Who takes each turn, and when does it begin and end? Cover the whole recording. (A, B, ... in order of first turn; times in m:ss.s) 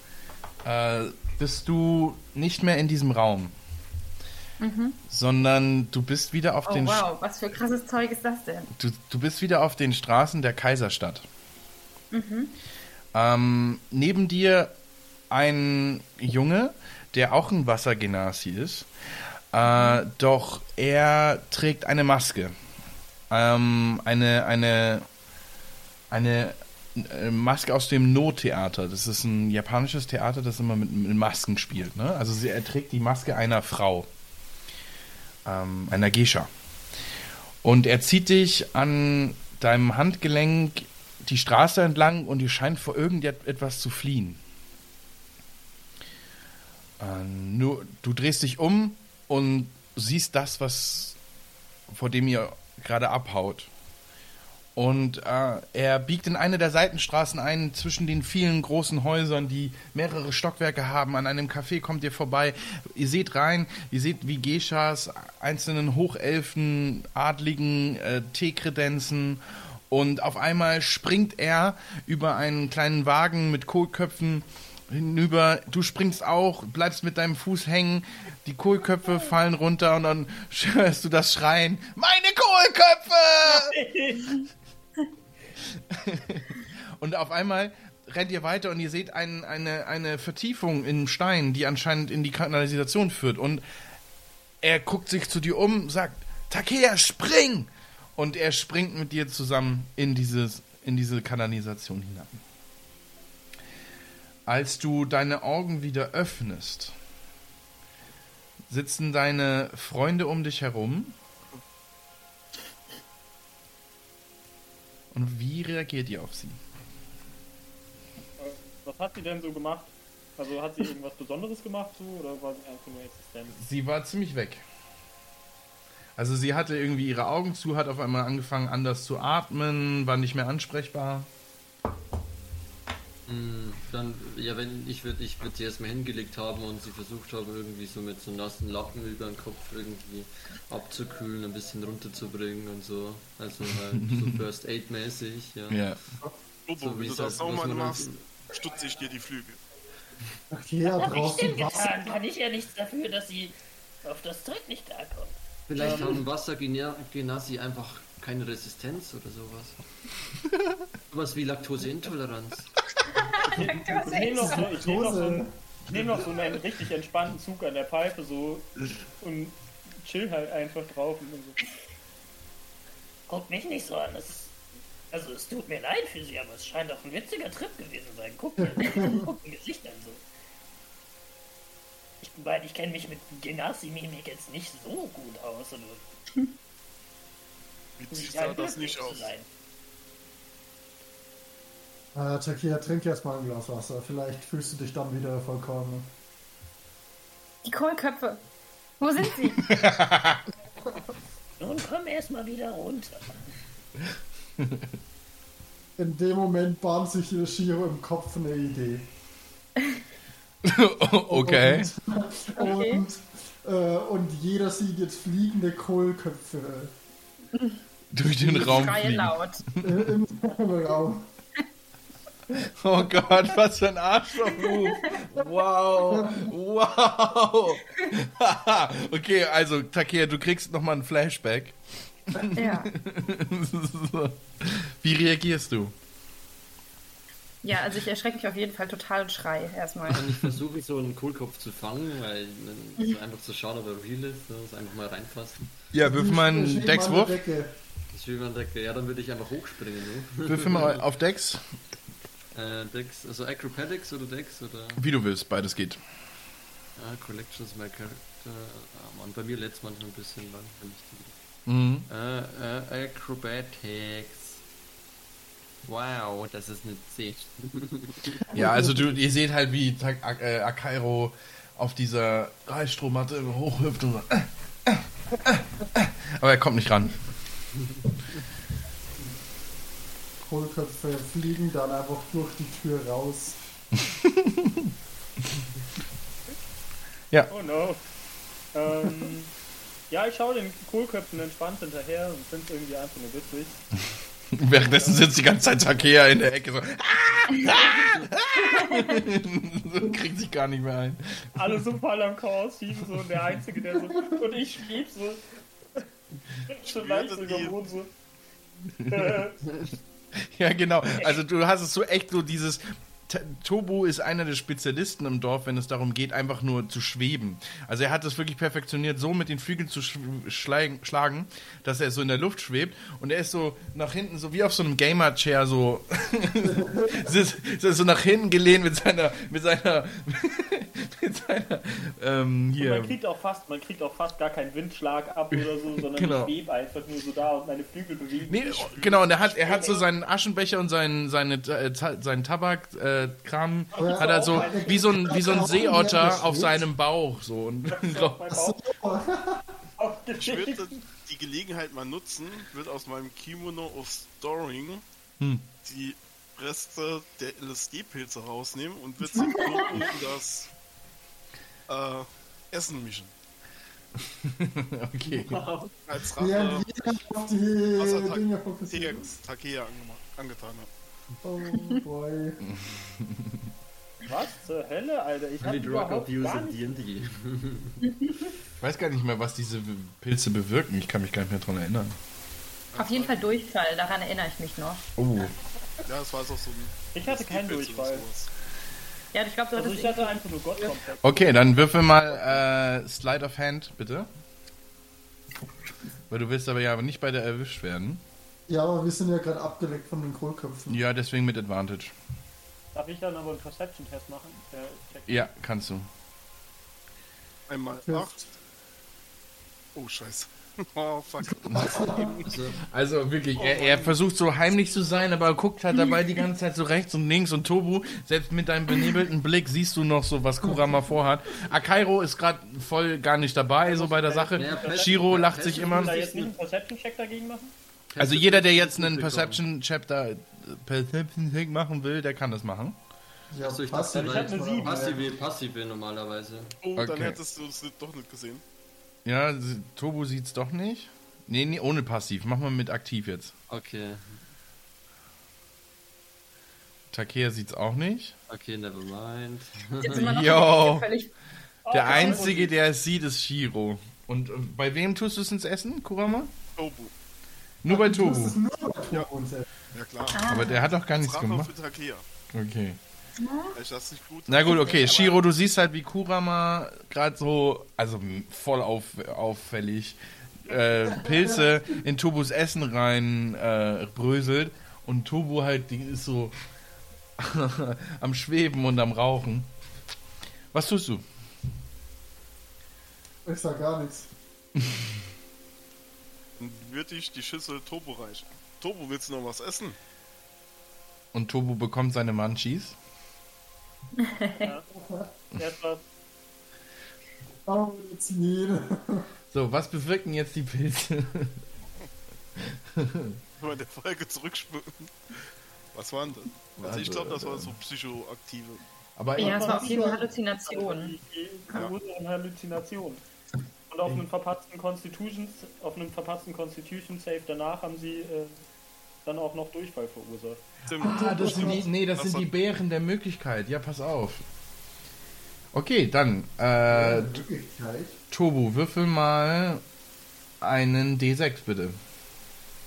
0:00.6-0:03.5 A
0:04.6-0:05.0 B
0:05.1-0:07.1 A
0:06.7-0:08.7 B
0:08.7-0:11.2 A
0:12.1-0:12.5 B
0:13.1-0:14.7 A
0:15.3-0:18.9 A
0:19.5-0:22.5 A
0:19.6-0:20.0 B
0:23.3-0:25.0 A
0:26.1-0:34.1 A
0:35.4-0:36.5 A
0:37.6-0:44.4 A
0:47.0-0:51.2 A
0:51.9-0:53.7 A
0:54.8-1:23.8 A
1:23.4-1:24.4 C
1:25.9-1:33.6 A
1:34.6-1:42.4 A
1:44.4-1:46.9 A
1:48.7-1:51.2 A
1:55.1-1:56.6 A
1:58.4-2:03.6 C
2:03.6-2:04.6 A
2:06.2-2:11.3 A
2:13.3-2:26.0 D
2:24.0-2:24.4 A
2:25.7-2:26.0 A
2:26.7-2:29.6 E
2:26.8-2:28.2 D
2:30.5-2:32.2 F
2:30.9-2:36.1 G
2:35.7-2:39.8 D
2:35.8-2:36.2 C
2:41.1-2:42.8 D
2:43.1-2:44.7 B
2:43.9-2:51.6 C
2:44.4-2:45.5 F
2:53.3-2:54.5 G
2:55.1-3:00.2 G
2:58.6-2:59.3 F
3:02.2-3:06.0 G
3:08.0-3:09.3 E
3:08.1-3:09.5 G
3:12.1-3:16.1 F
3:17.6-3:18.4 B
3:19.0-3:19.8 B
3:19.7-3:20.4 A
3:21.6-3:23.4 G
3:24.6-3:24.9 A
3:26.0-3:29.0 F
3:30.6-3:31.9 A
3:31.3-3:36.9 F
3:32.6-3:33.0 B
3:37.5-3:37.8 B
3:38.1-3:40.1 A
3:38.4-3:38.9 F
3:38.5-3:39.6 B
3:39.8-3:41.3 F
3:42.6-3:51.8 A
3:44.6-3:45.1 B
3:46.0-3:46.5 F
3:52.3-3:55.9 A
3:52.5-3:52.9 B
3:57.6-4:00.2 B
4:00.1-4:05.7 D
4:05.9-4:07.4 A
4:06.0-4:07.7 F
4:08.1-4:11.0 D
4:10.4-4:11.6 A
4:12.5-4:15.0 D
4:15.0-4:16.0 A
4:17.0-4:21.4 D
4:21.6-4:22.1 A
4:22.1-4:24.6 D
4:25.8-4:28.4 D
4:28.5-4:29.1 F
4:28.5-4:37.2 A
4:40.4-4:43.6 F
4:44.1-4:44.9 A
4:47.5-4:48.0 C
4:48.7-4:49.5 C
4:50.1-4:53.8 C
4:54.5-5:01.8 A
5:01.6-5:05.4 C
5:06.7-5:08.1 C
5:06.8-5:07.8 E
5:09.0-5:09.5 A
5:09.1-5:09.6 C
5:09.6-5:09.9 D
5:10.4-5:33.2 A
5:26.6-5:27.3 F
5:32.8-5:38.8 C
5:35.5-5:36.5 A
5:38.5-5:48.5 A
5:38.7-5:39.9 E
5:39.5-5:40.0 C
5:43.9-5:45.8 C
5:44.0-5:46.8 F
5:47.9-5:49.0 C
5:48.5-5:49.7 F
5:50.0-5:51.0 C
5:50.4-5:55.0 E
5:55.4-5:55.6 A
5:55.8-6:00.7 E
5:59.2-6:00.0 F
5:59.4-6:00.0 B
6:01.9-6:03.3 E
6:04.3-6:05.6 A
6:05.4-6:05.8 D
6:06.0-6:07.1 E
6:06.4-6:09.4 F
6:08.0-6:10.9 E
6:11.4-6:12.6 F
6:12.7-6:13.7 A
6:14.2-6:17.0 C
6:15.6-6:18.0 D
6:18.8-6:22.2 A
6:22.9-6:23.3 E
6:22.9-6:25.1 B
6:25.2-6:25.5 A
6:26.0-6:28.5 E
6:27.1-6:28.2 C
6:29.3-6:30.9 B
6:29.7-6:32.6 C
6:31.2-6:34.3 A
6:36.3-6:38.2 A
6:38.7-6:41.0 F
6:40.9-6:42.1 A
6:42.9-6:45.4 C
6:45.3-6:46.1 A
6:47.7-6:48.3 E
6:48.0-6:48.5 F
6:49.9-6:52.5 E
6:51.5-6:52.4 F
6:52.4-6:52.8 D
6:52.8-7:06.2 A
6:53.6-6:54.2 E
7:00.6-7:01.0 F
7:03.8-7:07.7 C
7:04.5-7:06.5 D
7:08.1-7:09.6 D
7:08.2-7:13.0 A
7:13.5-7:15.2 F
7:13.6-7:16.8 D
7:14.1-7:15.2 C
7:16.8-7:18.6 E
7:17.0-7:17.4 A
7:19.2-7:23.5 A
7:23.7-7:24.4 D
7:27.1-7:28.3 A
7:28.5-7:30.4 D
7:30.0-7:31.3 B
7:30.1-7:31.0 A
7:31.8-7:32.7 C
7:31.9-7:36.5 A
7:36.8-7:37.1 E
7:37.8-7:38.6 A
7:37.9-7:39.7 F
7:39.9-7:40.5 E
7:40.3-7:40.8 B
7:40.4-7:41.7 A
7:41.1-7:42.2 E
7:42.5-7:43.0 A
7:43.4-7:43.8 B
7:43.7-7:45.2 E
7:44.5-7:56.5 A
7:44.6-7:45.4 B
7:51.1-7:51.7 F
7:57.4-7:59.7 A
8:00.7-8:01.2 A
8:03.4-8:04.3 F
8:04.8-8:05.1 A
8:06.6-8:10.0 E
8:11.3-8:12.9 A
8:14.2-8:14.7 B
8:14.6-8:14.9 C
8:14.9-8:15.3 F
8:15.5-8:16.0 C
8:17.6-8:19.3 F
8:19.5-8:21.6 A
8:22.6-8:23.4 A
8:23.6-8:25.1 E
8:25.9-8:29.3 E
8:26.8-8:27.7 A
8:29.2-8:29.8 A
8:29.4-8:31.1 B
8:29.4-8:33.2 C
8:29.6-8:30.2 F
8:33.9-8:38.6 C
8:39.2-8:40.6 C
8:40.9-8:42.5 E
8:41.0-8:44.4 A
8:41.0-8:41.8 F
8:45.7-8:47.4 A
8:46.8-8:48.2 F
8:48.3-8:49.8 A
8:50.6-8:52.0 A